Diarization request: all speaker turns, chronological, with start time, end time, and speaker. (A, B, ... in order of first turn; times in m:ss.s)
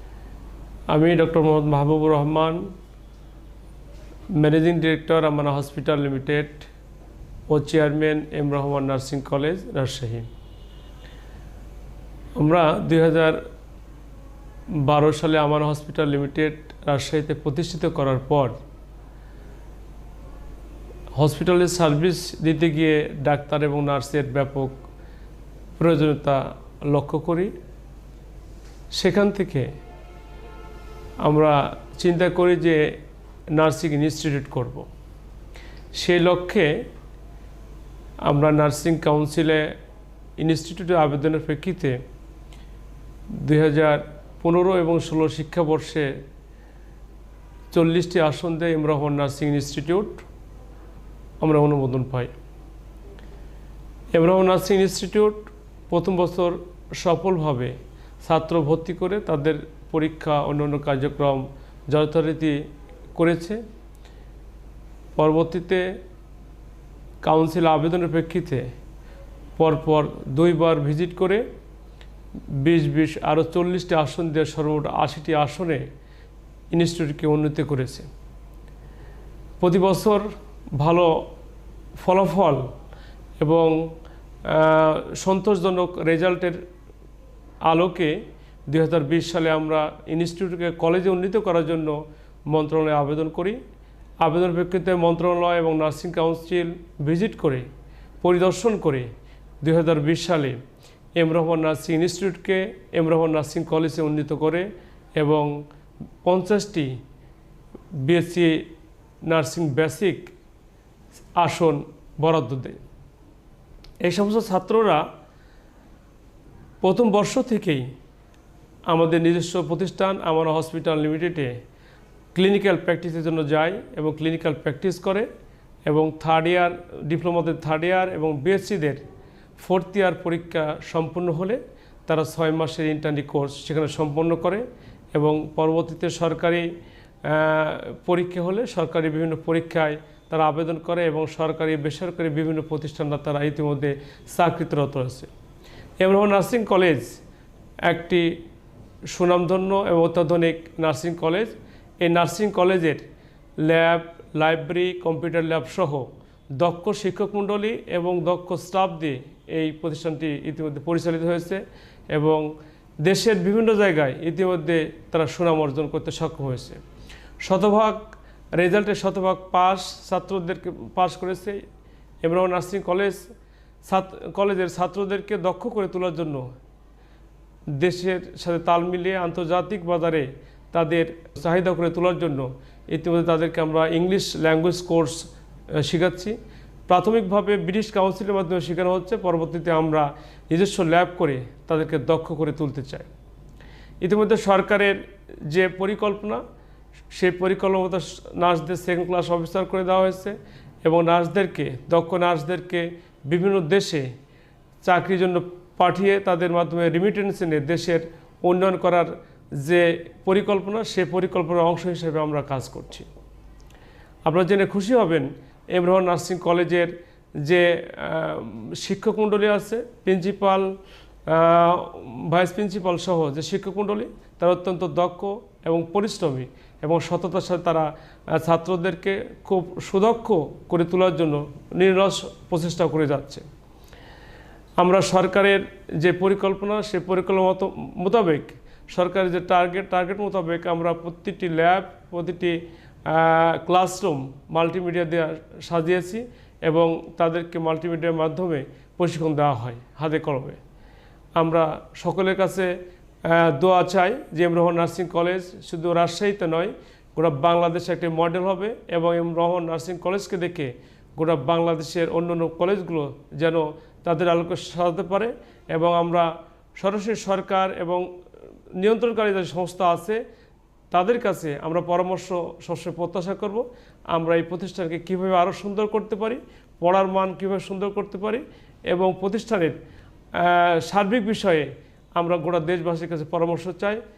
0:00.9-0:02.7 A
0:04.3-0:06.7 A
0:07.5-0:10.3 A
0:12.4-0:13.4 A
0:14.7-0:18.6 A
0:21.1-0:24.8 A
0:25.8-0:27.5 A
0:28.9-0:29.7 A
0:31.2-0:32.9 A
0:33.5-0:34.9 A
0:35.9-0:36.8 A
0:38.2-0:39.7 A
0:40.4-0:42.0 A
0:43.4-0:46.1 A
0:47.7-0:50.2 A
0:51.4-0:52.3 A
0:54.1-1:02.6 A
1:03.1-1:03.6 A
1:05.2-1:05.9 A
1:07.2-1:08.7 A
1:09.6-1:11.4 A
1:12.6-1:15.8 A
1:16.7-1:18.1 A
1:19.6-1:21.2 A
1:22.0-1:22.7 A
1:23.4-1:23.8 A
1:24.4-1:26.6 A
1:27.6-1:33.6 A
1:34.2-1:37.7 A
1:38.2-1:39.1 A
1:39.6-1:40.6 A
1:41.2-1:45.5 A
1:46.2-1:47.0 A
1:48.0-1:48.6 A
1:49.2-1:50.3 A
1:51.4-1:52.8 A
1:54.0-1:55.0 A
1:56.8-1:57.9 A
1:58.9-2:01.5 A
2:02.3-2:05.3 A
2:05.8-2:09.0 A
2:09.6-2:16.7 A
2:17.2-2:25.3 A
2:26.0-2:27.2 A
2:27.9-2:28.4 A
2:29.1-2:33.0 A
2:33.6-2:42.5 A
2:43.0-2:46.8 A
2:47.4-2:48.0 A
2:48.5-2:51.6 A
2:52.2-2:53.2 A
2:53.8-2:56.5 A
2:57.8-3:06.4 A
3:06.9-3:13.1 A
3:14.0-3:16.4 A
3:17.1-3:24.1 A
3:24.8-3:33.1 A
3:34.2-3:40.7 A
3:41.3-3:53.4 A
3:54.8-4:10.6 A
4:11.4-4:12.7 A
4:13.2-4:28.1 A
4:28.7-4:30.2 A
4:30.9-4:39.8 A
4:40.3-4:44.0 A